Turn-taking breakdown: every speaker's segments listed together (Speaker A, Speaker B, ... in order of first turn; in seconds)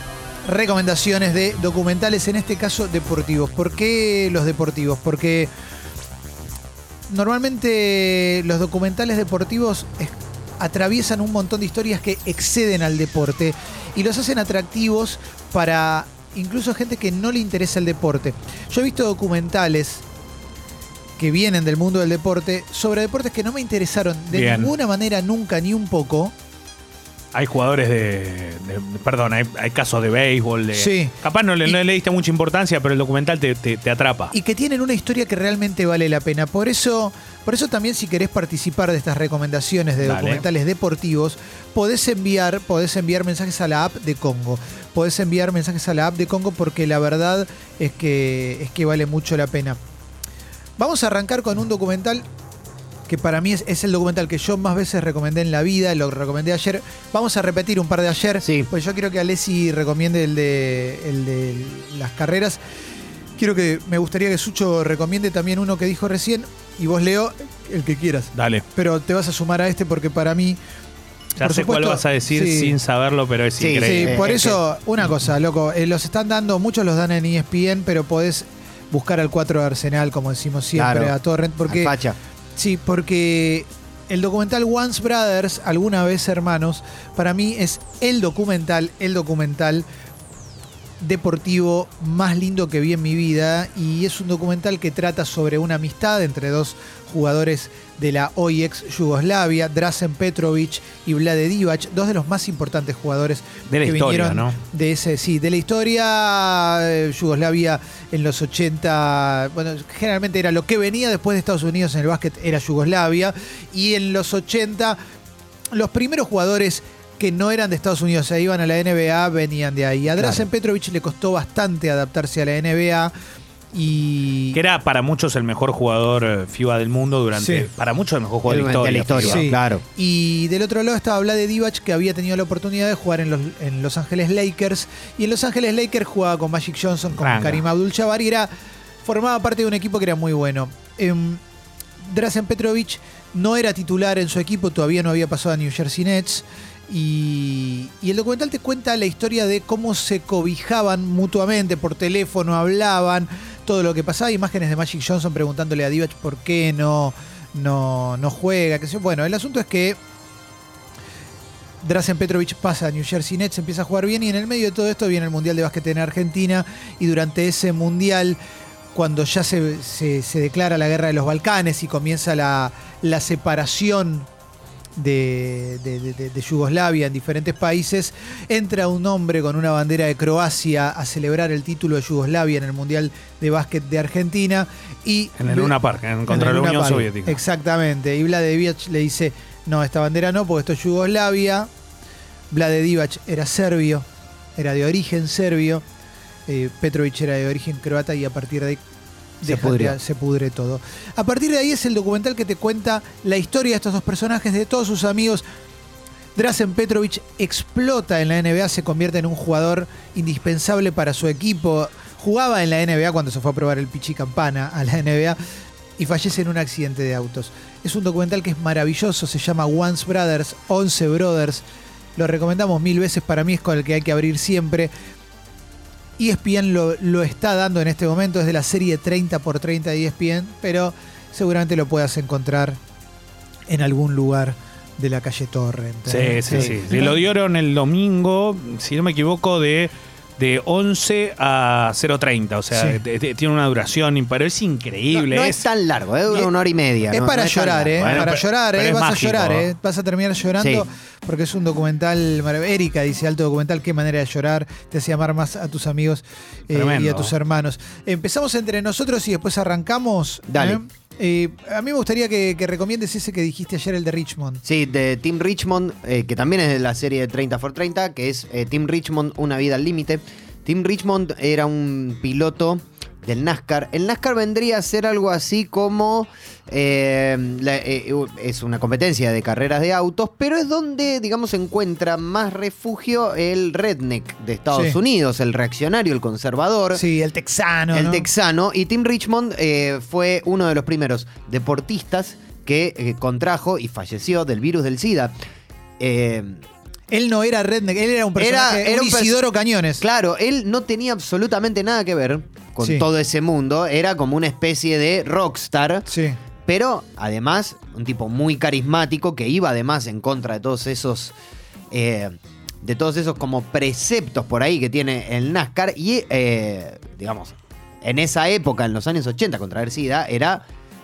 Speaker A: 0.5-5.5, 7.1-20.0, 21.2-26.3, 30.7-31.8, 34.3-49.8, 50.8-52.2, 53.1-62.6, 63.4-70.6, 71.4-72.7, 73.8-81.9, 82.6-89.9, 91.0-115.0, 115.7-123.1, 123.7-124.6, 127.4-127.7, 129.2-138.5, 139.0-141.4, 142.0-160.0, 161.8-168.4, 168.9-174.3, 175.0-185.8, 186.3-191.7, 192.5-194.1, 194.6-195.8, 196.5-198.8, 199.4-205.4, 206.4-215.4, 216.0-221.6, 222.2-224.9, 226.2-232.8, 233.7-237.2, 242.7-243.0, 247.1-264.6, 284.7-285.0, 286.9-288.3, 297.1-300.0, 306.1-306.4
Speaker B: 24.3-24.7, 27.3-34.3, 40.0-40.4, 68.3-68.7, 71.4-74.3, 103.7-104.6, 124.5-129.4, 137.2-137.6, 185.4-187.4, 236.1-245.6, 248.0-249.7, 256.7-257.3
Speaker C: 58.4-58.7, 73.6-74.6, 80.8-81.1, 81.7-82.2, 120.1-120.5, 128.5-129.8, 199.4-200.0, 236.5-237.0, 245.1-248.3, 250.6-250.8, 260.5-260.8, 264.6-287.0, 287.9-295.4, 296.0-296.6, 298.4-299.4, 300.0-306.1, 306.7-311.4, 311.9-320.6